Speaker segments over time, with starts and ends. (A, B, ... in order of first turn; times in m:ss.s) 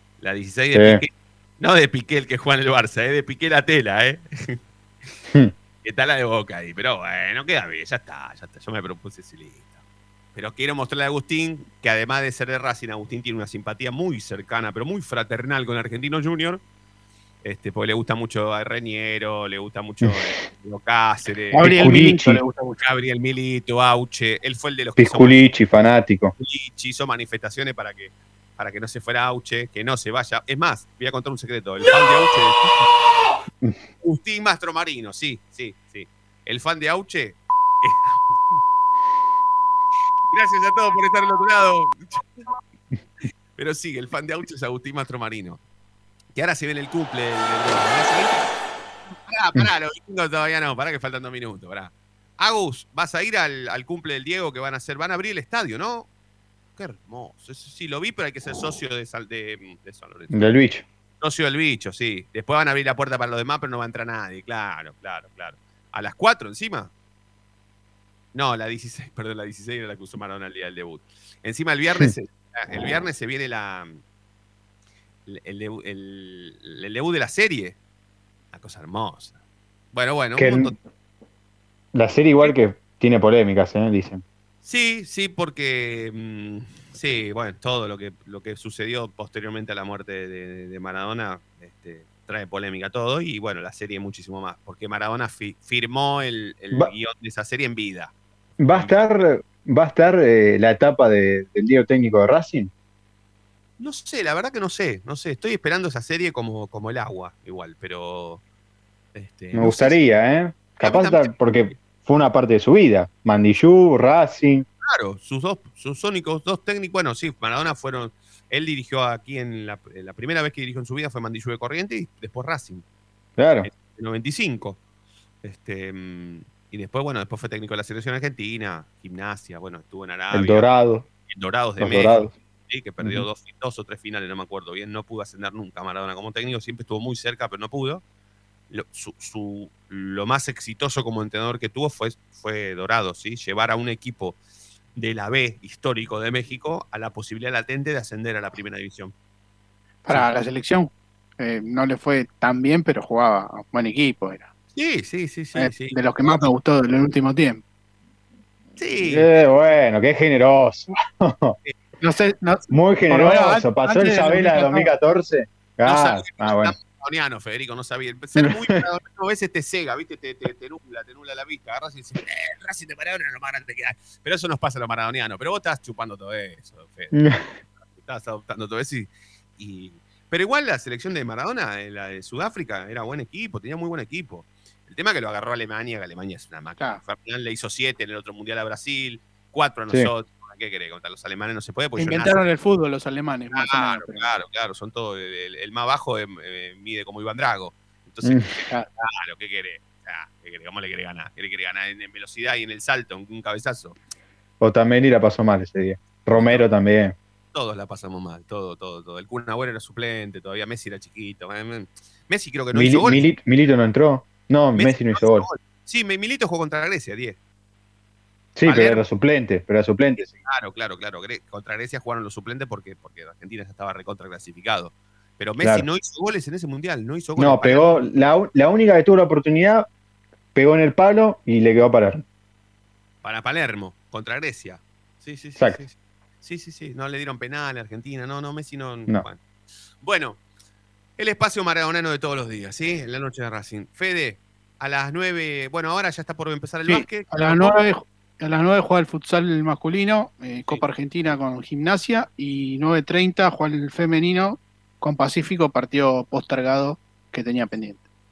0:00.2-0:04.6 A
0:00.7-0:01.0 B
0:05.8-0:09.8 A
0:10.3-0:16.6 A
0:17.4-0:22.0 A
0:20.0-0:20.3 B
0:21.5-0:22.8 C
0:21.6-0:22.4 B
0:22.8-0:25.4 A
0:25.0-0:26.3 B
0:26.4-0:32.9 A
0:34.0-0:38.6 A
0:40.3-0:42.5 A
0:43.6-0:45.6 A
0:46.3-0:48.5 A
0:49.2-0:56.1 A
0:56.8-1:00.6 A
1:00.3-1:00.8 B
1:01.2-1:06.9 A
1:08.3-1:14.0 A
1:15.2-1:17.8 A
1:18.5-1:19.4 A
1:19.9-1:20.7 A
1:20.4-1:20.7 B
1:21.9-1:24.2 B
1:24.6-1:38.1 A
1:38.6-1:42.7 B
1:43.8-1:48.4 A
1:49.1-1:50.0 A
1:49.5-1:54.6 B
1:50.8-1:51.4 A
1:54.8-2:02.8 A
2:03.4-2:03.7 B
2:03.6-2:04.8 A
2:05.4-2:10.7 A
2:10.3-2:11.0 B
2:11.3-2:18.0 A
2:11.8-2:12.3 B
2:18.7-2:24.4 A
2:24.9-2:29.1 A
2:30.0-2:34.5 C
2:34.7-2:36.4 A
2:35.5-2:37.6 C
2:38.8-2:39.3 A
2:39.0-2:41.6 B
2:42.0-2:44.9 C
2:42.7-2:46.7 B
2:45.8-2:57.1 A
2:57.1-2:57.5 B
2:57.9-3:12.4 A
3:12.0-3:14.3 C
3:13.5-3:24.0 A
3:18.2-3:18.5 B
3:24.6-3:27.2 B
3:26.4-3:26.6 A
3:27.5-3:33.2 A
3:32.7-3:35.5 B
3:34.7-3:37.4 A
3:38.6-3:40.3 B
3:38.6-3:39.0 A
3:40.4-3:47.8 A
3:45.6-3:45.8 B
3:47.4-3:49.8 B
3:50.5-3:52.2 B
3:53.2-3:59.4 A
4:00.0-4:00.4 A
4:01.2-4:07.8 A
4:06.9-4:18.0 C